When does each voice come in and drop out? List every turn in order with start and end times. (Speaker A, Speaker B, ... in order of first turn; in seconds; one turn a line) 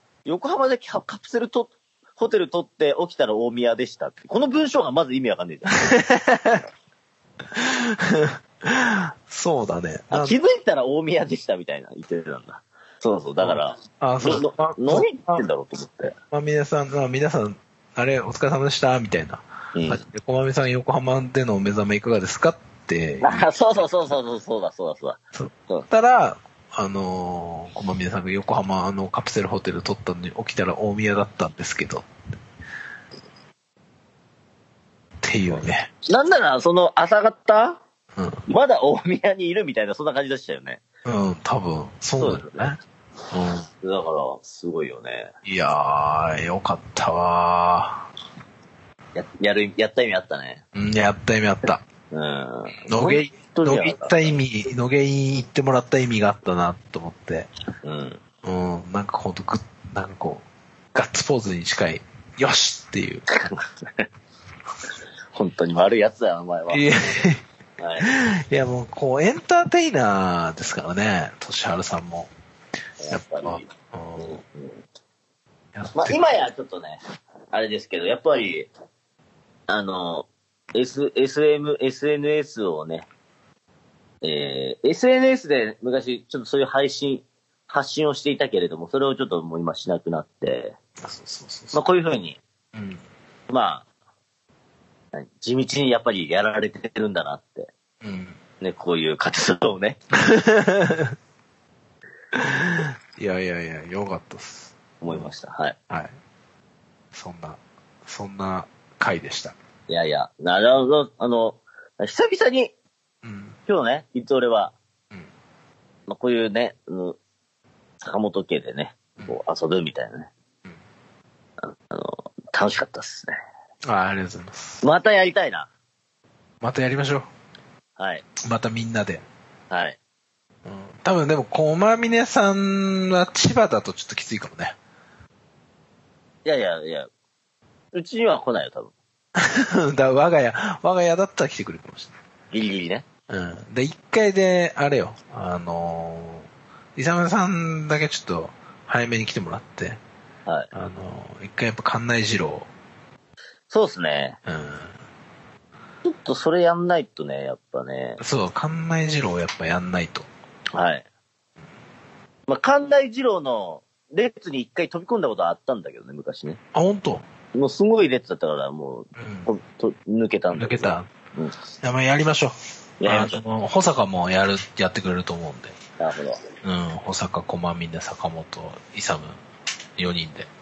Speaker A: 0.2-5.9
Speaker B: 5.8-6.6
Speaker B: 7.5-10.3
Speaker A: 10.1-16.1
Speaker B: 13.4-15.4
Speaker B: 16.3-23.4
Speaker A: 19.7-20.0
Speaker A: 23.2-25.9
Speaker B: 25.3-32.1
Speaker B: 35.2-35.9
Speaker A: 36.0-37.8
Speaker A: 38.5-40.8
Speaker B: 41.0-42.8
Speaker A: 42.2-42.8
Speaker B: 43.3-43.6
Speaker A: 43.8-45.3
Speaker B: 45.4-48.1
Speaker A: 49.1-50.6
Speaker B: 50.7-51.8
Speaker A: 52.1-54.3
Speaker B: 52.9-57.5
Speaker A: 57.8-58.2
Speaker B: 58.4-63.4
Speaker A: 63.4-64.0
Speaker A: 65.3-66.8
Speaker B: 66.7-67.4
Speaker A: 67.8-68.1
Speaker B: 68.0-72.3
Speaker A: 73.0-74.8
Speaker B: 73.1-74.4
Speaker B: 75.7-76.2
Speaker A: 75.9-77.0
Speaker A: 77.5-78.7
Speaker A: 79.7-83.1
Speaker A: 84.2-90.8
Speaker B: 91.0-91.8
Speaker A: 91.7-92.4
Speaker B: 92.7-93.0
Speaker A: 93.5-93.8
Speaker A: 95.1-97.7
Speaker B: 98.0-98.4
Speaker A: 98.6-100.0
Speaker B: 100.2-101.1
Speaker B: 102.3-105.3
Speaker A: 105.0-105.8
Speaker B: 105.9-106.1
Speaker B: 107.1-109.5
Speaker A: 109.9-112.7
Speaker B: 113.2-113.6
Speaker A: 113.7-114.7
Speaker A: 116.1-117.2
Speaker A: 118.0-120.3
Speaker A: 121.6-123.3
Speaker B: 123.8-124.8
Speaker A: 124.8-125.7
Speaker B: 126.6-127.3
Speaker A: 128.0-128.2
Speaker B: 128.4-129.2
Speaker A: 129.7-130.0
Speaker B: 130.6-134.8
Speaker A: 136.4-137.1
Speaker A: 137.9-138.9
Speaker B: 139.4-142.1
Speaker A: 142.5-143.0
Speaker B: 143.3-150.0
Speaker B: 150.7-152.7
Speaker A: 153.7-154.4
Speaker B: 154.4-154.9
Speaker A: 156.0-158.2
Speaker B: 158.2-160.3
Speaker A: 160.7-161.1
Speaker A: 162.5-166.6
Speaker B: 166.7-167.2
Speaker A: 167.5-171.6
Speaker B: 169.2-169.5
Speaker B: 170.5-171.1
Speaker B: 171.8-175.8
Speaker A: 173.0-173.4
Speaker A: 176.0-176.4
Speaker B: 176.6-179.4
Speaker B: 180.0-180.5